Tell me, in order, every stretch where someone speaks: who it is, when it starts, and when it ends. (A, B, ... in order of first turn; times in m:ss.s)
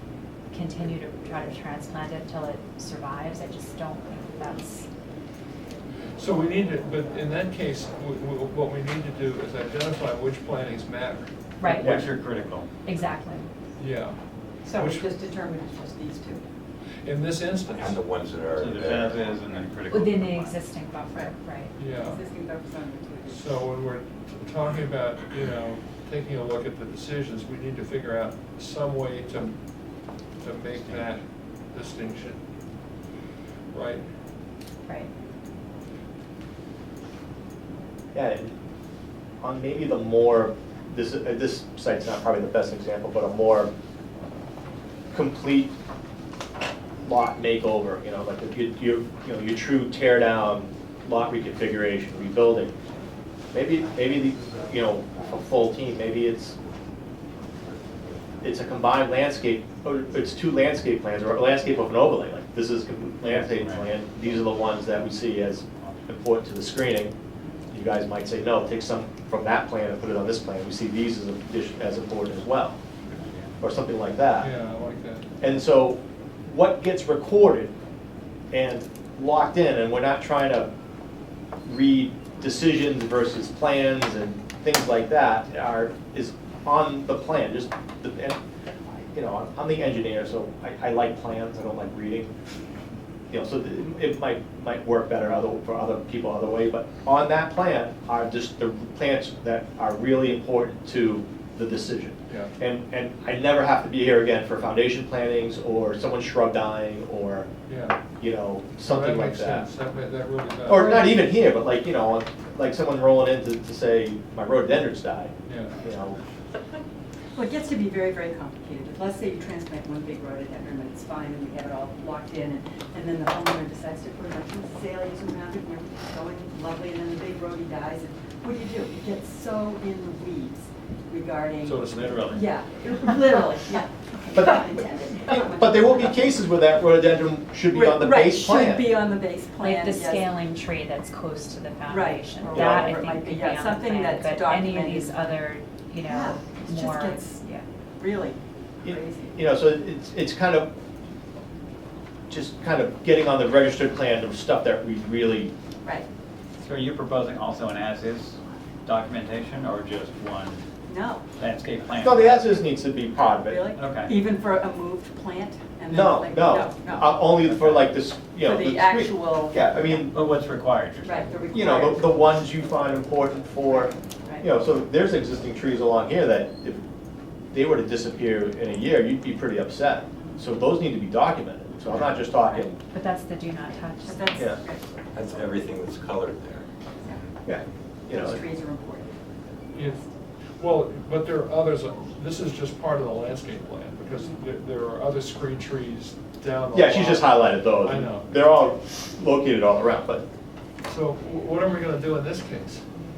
0:00.5-0:04.9 A
0:06.2-0:11.3 B
0:11.6-0:12.0 A
0:11.7-0:12.7 C
0:11.7-0:12.0 D
0:12.8-0:13.5 A
0:13.8-0:14.2 B
0:14.6-0:16.4 E
0:14.7-0:15.1 B
0:17.0-0:18.0 B
0:17.7-0:19.3 F
0:18.6-0:20.6 C
0:19.9-0:21.7 A
0:21.8-0:22.2 B
0:21.9-0:23.5 E
0:23.3-0:29.5 B
0:30.4-0:32.4 B
0:33.7-0:34.0 B
0:34.8-0:35.1 A
0:38.1-0:38.6 D
0:39.4-0:43.7 D
0:45.1-0:45.7 D
0:47.0-0:52.8 D
0:53.5-0:56.6 D
0:54.4-0:54.6 F
0:57.7-0:58.4 F
0:58.4-1:07.2 D
1:03.2-1:03.9 C
1:07.7-1:12.8 D
1:13.0-1:13.6 C
1:13.6-1:14.5 D
1:14.4-1:15.2 B
1:15.4-1:17.7 D
1:18.5-1:20.7 D
1:21.7-1:28.4 D
1:29.1-1:32.3 D
1:33.3-1:47.5 D
1:47.7-1:48.0 B
1:48.2-1:49.7 D
1:48.8-1:51.1 B
1:50.7-1:56.2 D
1:55.4-1:55.8 B
1:57.3-2:16.4 E
2:11.7-2:12.4 C
2:14.3-2:18.9 D
2:17.7-2:20.3 E
2:19.6-2:27.6 A
2:21.9-2:25.4 E
2:22.5-2:22.9 D
2:26.0-2:29.4 E
2:28.8-2:30.7 D
2:32.3-2:35.5 D
2:36.6-2:40.6 C
2:40.9-2:41.3 E
2:41.4-2:42.6 C
2:42.0-2:43.6 D
2:43.4-2:47.3 E
2:43.8-2:44.2 C
2:45.9-2:50.2 D
2:47.4-2:48.0 C
2:48.4-2:50.0 E
2:50.1-2:51.2 C
2:51.0-2:52.4 E
2:51.5-2:56.8 D
2:57.5-3:02.8 D
3:02.4-3:02.7 E
3:02.9-3:04.4 A
3:04.0-3:05.4 E
3:05.1-3:06.6 F
3:07.0-3:07.2 E
3:07.4-3:08.4 D
3:08.1-3:09.9 E
3:09.7-3:10.0 B
3:10.6-3:18.3 B
3:16.7-3:20.2 D
3:20.8-3:22.8 B